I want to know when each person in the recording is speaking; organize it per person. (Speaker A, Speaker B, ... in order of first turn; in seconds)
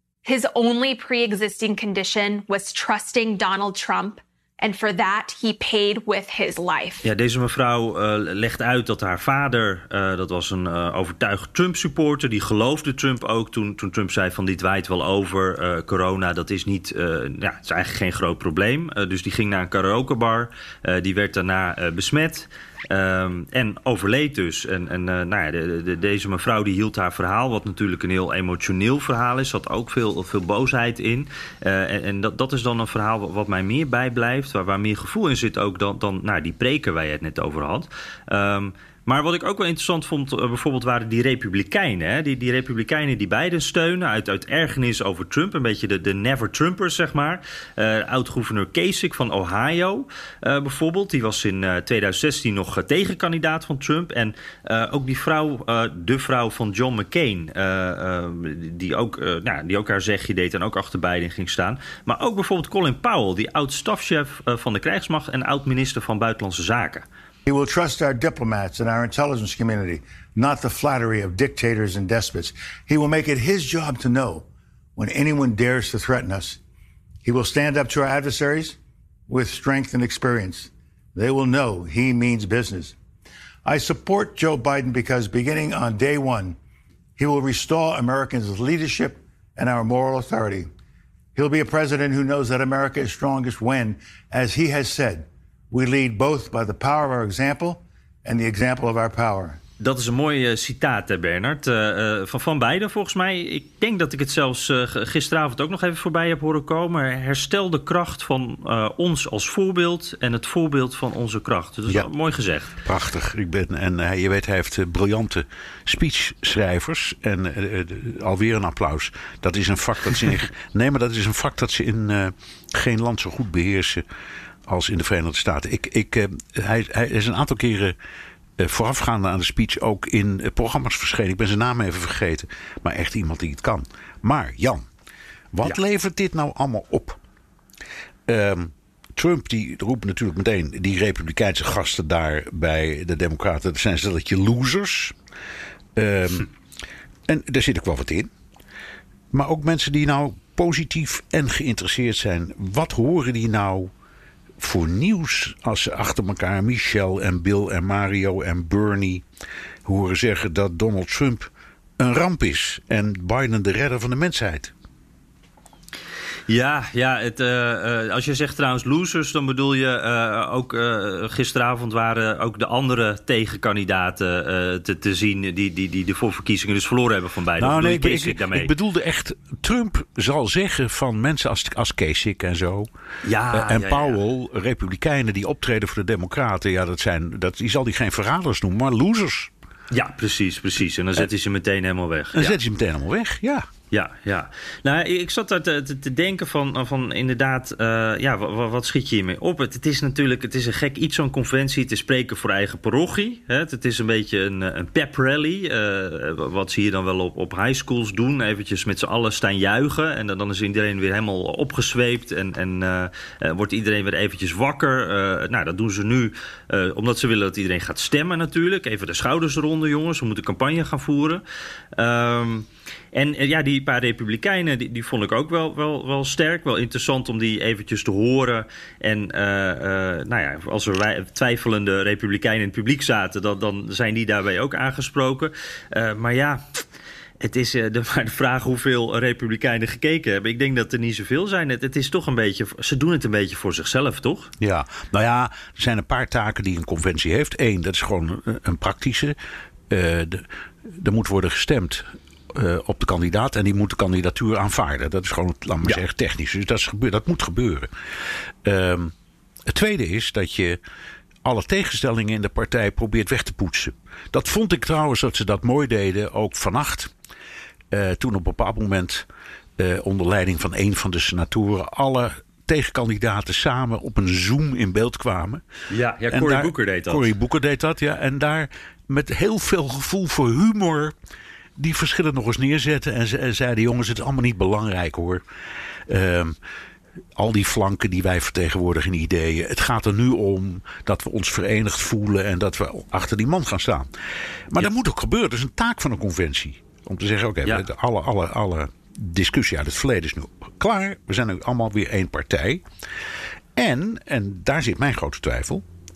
Speaker A: 0.2-7.0
Speaker B: 7.0-67.0, 99.8-112.7, 166.5-178.7, 183.2-184.2, 189.9-192.6, 193.9-221.4, 221.9-236.8, 237.4-244.5, 275.9-277.3
Speaker C: 67.5-76.6, 77.2-78.8, 79.3-83.0, 83.6-86.6, 87.2-90.7, 91.3-99.6
Speaker D: 112.8-124.0, 124.7-127.9, 128.6-134.8, 135.5-137.2, 138.3-145.1, 145.9-146.5, 147.3-148.3, 149.3-153.9, 154.6-159.2, 159.8-164.7, 177.6-182.9, 183.5-189.5, 192.3-193.7, 244.6-249.3, 249.9-257.9, 258.6-259.1, 259.7-260.8, 261.4-267.1, 267.9-275.6, 276.3-281.1, 281.8-285.4, 286.1-286.6, 287.4-294.1, 294.7-302.8, 303.8-305.8